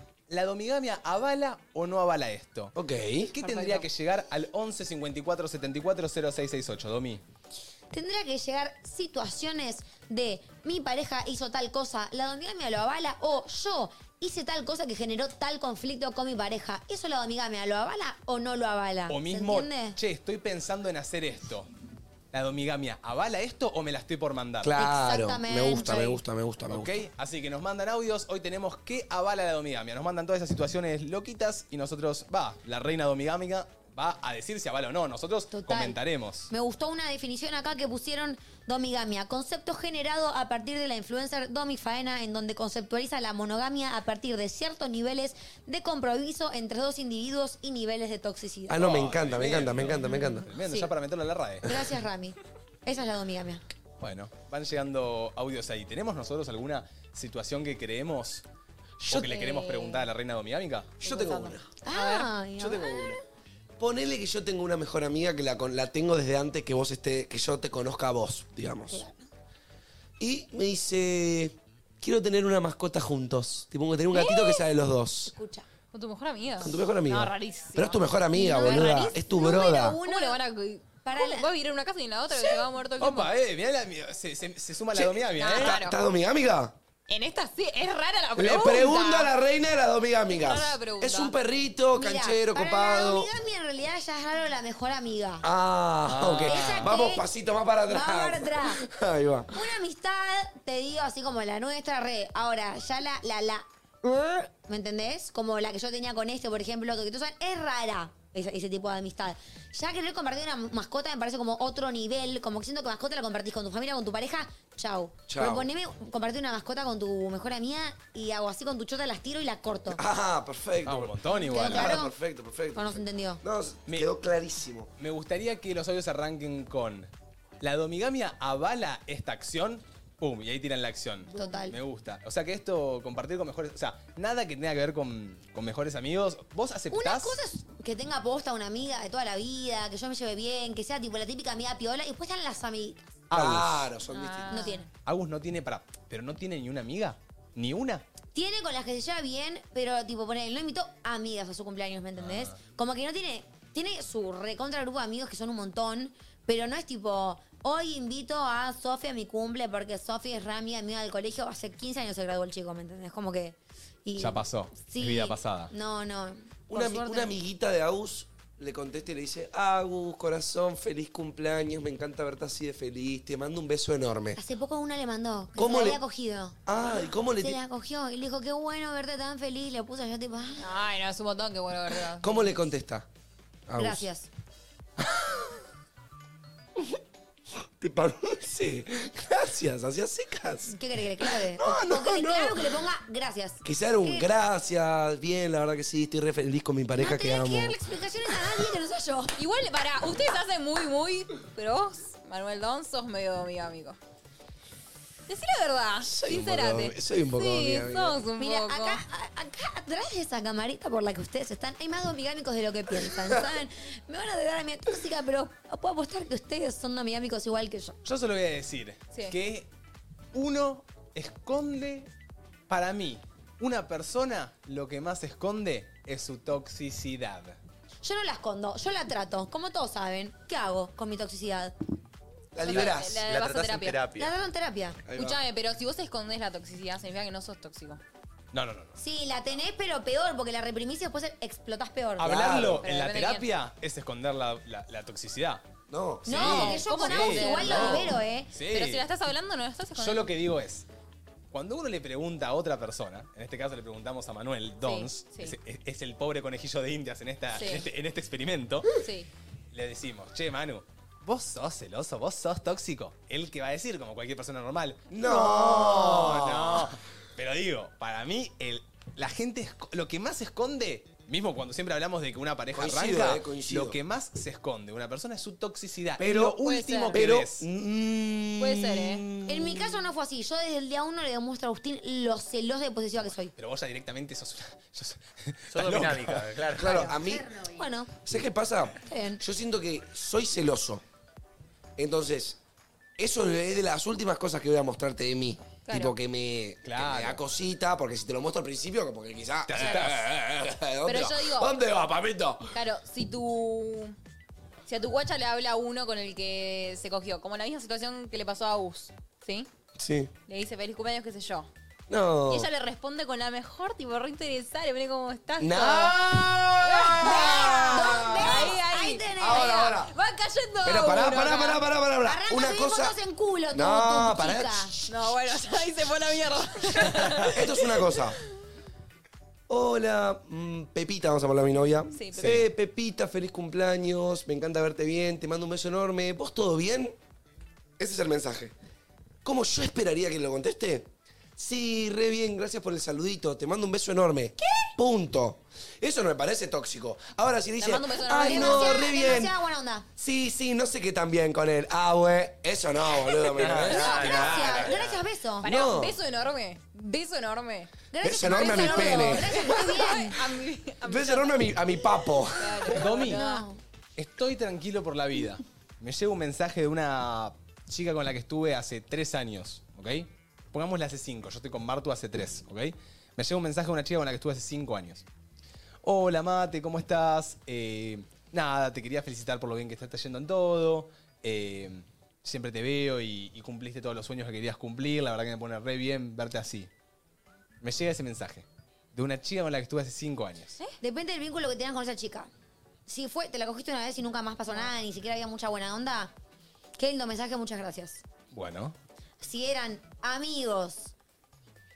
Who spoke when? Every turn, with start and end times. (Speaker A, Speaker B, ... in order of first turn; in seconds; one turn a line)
Speaker A: 0.3-2.7
Speaker B: 2.8-3.3
Speaker A: 3.3-7.2
Speaker C: 3.4-3.8
Speaker D: 7.9-20.0
Speaker A: 19.1-21.7
Speaker A: 22.3-24.8
Speaker B: 24.6-27.1
Speaker D: 24.8-26.2
Speaker A: 26.7-36.5
Speaker D: 35.5-36.0
Speaker D: 36.5-48.9
Speaker B: 48.7-50.5
Speaker A: 48.8-51.7
Speaker D: 50.6-50.9
Speaker D: 51.6-53.6
Speaker A: 54.0-58.4
Speaker A: 59.1-61.0
Speaker C: 59.1-60.0
Speaker B: 61.0-61.7
Speaker C: 61.0-62.3
Speaker D: 61.8-63.1
Speaker B: 62.6-63.2
Speaker B: 63.8-69.0
Speaker D: 68.9-69.3
Speaker B: 70.2-75.3
Speaker D: 74.2-74.5
Speaker D: 75.3-75.7
Speaker C: 75.9-83.3
Speaker B: 76.6-80.0
Speaker D: 78.4-80.4
Speaker D: 81.0-81.5
Speaker A: 83.0-85.8
Speaker B: 84.9-86.7
Speaker C: 85.4-86.0
Speaker C: 87.1-89.3
Speaker B: 88.4-93.3
Speaker C: 90.3-91.3
Speaker D: 91.9-95.5
Speaker B: 95.4-99.5
Speaker A: 96.1-96.9
Speaker D: 96.5-97.2
Speaker D: 97.9-98.8
Speaker D: 99.5-120.0
Speaker B: 115.3-115.7
Speaker B: 119.9-124.9
Speaker A: 120.8-122.0
Speaker D: 121.5-122.1
Speaker D: 122.7-123.4
Speaker A: 125.0-127.1
Speaker A: 127.6-137.4
Speaker D: 131.3-131.8
Speaker D: 136.9-143.6
Speaker A: 143.3-143.8
Speaker B: 143.3-144.7
Speaker C: 144.1-144.9
Speaker D: 144.5-144.9
Speaker A: 145.1-148.0
Speaker D: 148.3-167.3
Speaker A: 164.2-165.7
Speaker B: 166.7-174.4
Speaker D: 174.3-176.6
Speaker B: 175.6-176.0
Speaker B: 176.7-177.6
Speaker D: 177.4-180.7
Speaker C: 180.6-182.6
Speaker B: 182.2-183.1
Speaker B: 183.7-184.1
Speaker D: 183.8-184.3
Speaker B: 185.0-185.5
Speaker B: 187.8-192.8
Speaker D: 190.7-194.3
Speaker B: 193.6-198.6
Speaker D: 197.0-199.3
Speaker C: 199.4-204.0
Speaker C: 205.3-209.0
Speaker B: 206.0-208.2
Speaker D: 208.4-218.0
Speaker B: 213.1-213.4
Speaker A: 218.1-219.7
Speaker A: 220.3-222.1
Speaker A: 222.7-227.6
Speaker D: 228.0-231.7
Speaker B: 232.6-233.2
Speaker C: 232.6-234.0
Speaker E: 232.7-234.3
Speaker D: 234.2-235.0
Speaker B: 235.1-235.4
Speaker C: 235.1-238.0
Speaker A: 238.5-239.0
Speaker D: 239.0-242.3
Speaker A: 242.2-245.6
Speaker B: 242.2-242.8
Speaker C: 242.8-243.5
Speaker B: 245.9-246.8
Speaker A: 246.2-249.0
Speaker D: 246.3-248.5
Speaker C: 246.4-248.1
Speaker B: 247.6-248.2
Speaker C: 248.7-250.3
Speaker A: 250.0-250.9
Speaker A: 251.5-258.9
Speaker C: 254.8-255.6
Speaker C: 257.5-257.9
Speaker C: 259.0-259.3
Speaker A: 259.7-277.7
Speaker B: 265.1-266.9
Speaker B: 272.7-274.0
Speaker B: 276.2-276.6
Speaker C: 276.6-277.3
Speaker B: 277.1-280.0
Speaker C: 278.6-279.2
Speaker D: 279.5-283.5
Speaker A: 283.6-286.6
Speaker E: 285.7-287.2
Speaker B: 286.8-287.6
Speaker D: 287.0-288.1
Speaker B: 288.2-291.0
Speaker D: 289.0-289.4
Speaker B: 292.0-292.6
Speaker B: 293.2-302.7
Speaker C: 295.9-296.2
Speaker A: 296.9-297.4
Speaker A: 299.7-300.2
Speaker C: 299.8-300.2
Speaker C: 301.0-301.8
Speaker C: 302.7-304.2
Speaker C: 304.9-309.7
Speaker B: 310.0-310.3
Speaker C: 310.5-311.7
Speaker B: 312.1-312.7
Speaker C: 312.5-321.9
Speaker B: 315.6-318.8
Speaker D: 317.2-320.0
Speaker B: 319.4-320.1
Speaker B: 320.8-323.2
Speaker D: 322.2-324.9
Speaker B: 323.7-325.0
Speaker C: 325.1-328.2
Speaker B: 327.5-328.4
Speaker B: 329.7-337.1
Speaker C: 332.1-332.6
Speaker A: 332.4-332.6
Speaker B: 338.0-338.7
Speaker B: 339.4-349.6
Speaker C: 347.8-349.4
Speaker D: 348.4-350.1
Speaker B: 350.2-355.0
Speaker E: 353.6-355.2
Speaker D: 353.6-355.7
Speaker B: 355.6-356.2
Speaker C: 355.6-357.9
Speaker D: 358.1-360.4
Speaker B: 358.2-360.1
Speaker C: 358.4-361.7
Speaker B: 361.0-363.0
Speaker C: 362.6-363.7
Speaker A: 362.9-363.4
Speaker D: 363.1-363.8
Speaker A: 364.2-375.2
Speaker A: 376.0-386.9
Speaker A: 387.8-390.8
Speaker D: 391.0-392.5
Speaker D: 393.1-396.3
Speaker D: 397.0-398.2
Speaker A: 398.5-398.9
Speaker D: 399.4-401.1